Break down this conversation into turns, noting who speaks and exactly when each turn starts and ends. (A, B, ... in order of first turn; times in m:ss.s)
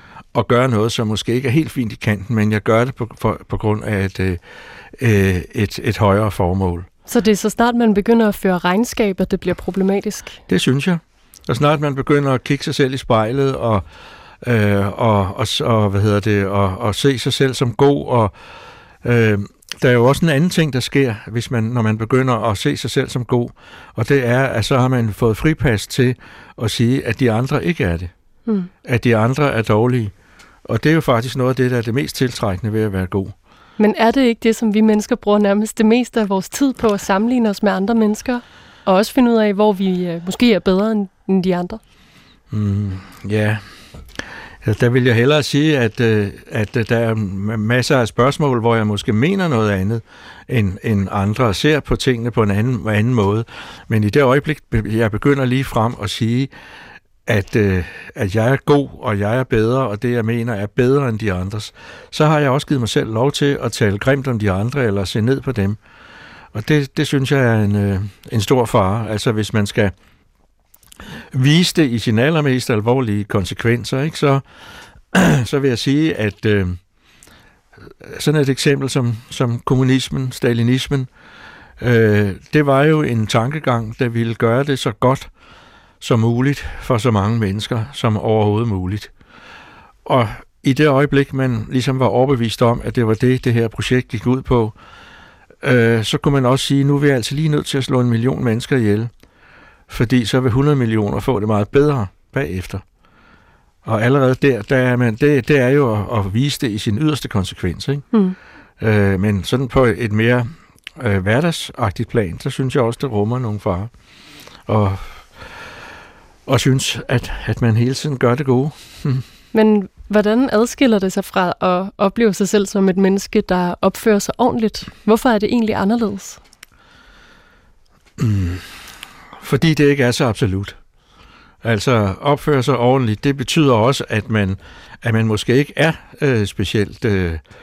0:00.3-0:04.4 A
0:05.0-0:06.9 A
0:07.0-0:10.4 B
0:10.5-0:13.8 A
0:14.4-0:18.3 A
0:19.0-0:28.1 A
0:28.8-0:30.1 A
0:30.6-0:33.3 A
0:33.8-0:41.8 B
0:42.5-0:43.6 A
0:44.6-0:56.5 A
0:57.2-1:05.8 A
1:06.5-1:09.9 A
1:11.3-1:14.4 A
1:15.1-1:16.8 A
1:18.0-1:21.1 A
1:21.8-1:25.3 A
1:26.0-1:29.1 A
1:30.0-1:34.7 A
1:35.6-1:39.1 A
1:39.9-1:42.8 A
1:43.8-1:48.1 A
1:48.8-1:53.9 A
1:54.7-1:55.5 A
1:56.4-1:59.2 A
1:59.5-2:06.4 B
2:08.2-2:08.9 A
2:09.4-2:10.8 A
2:11.6-2:17.4 A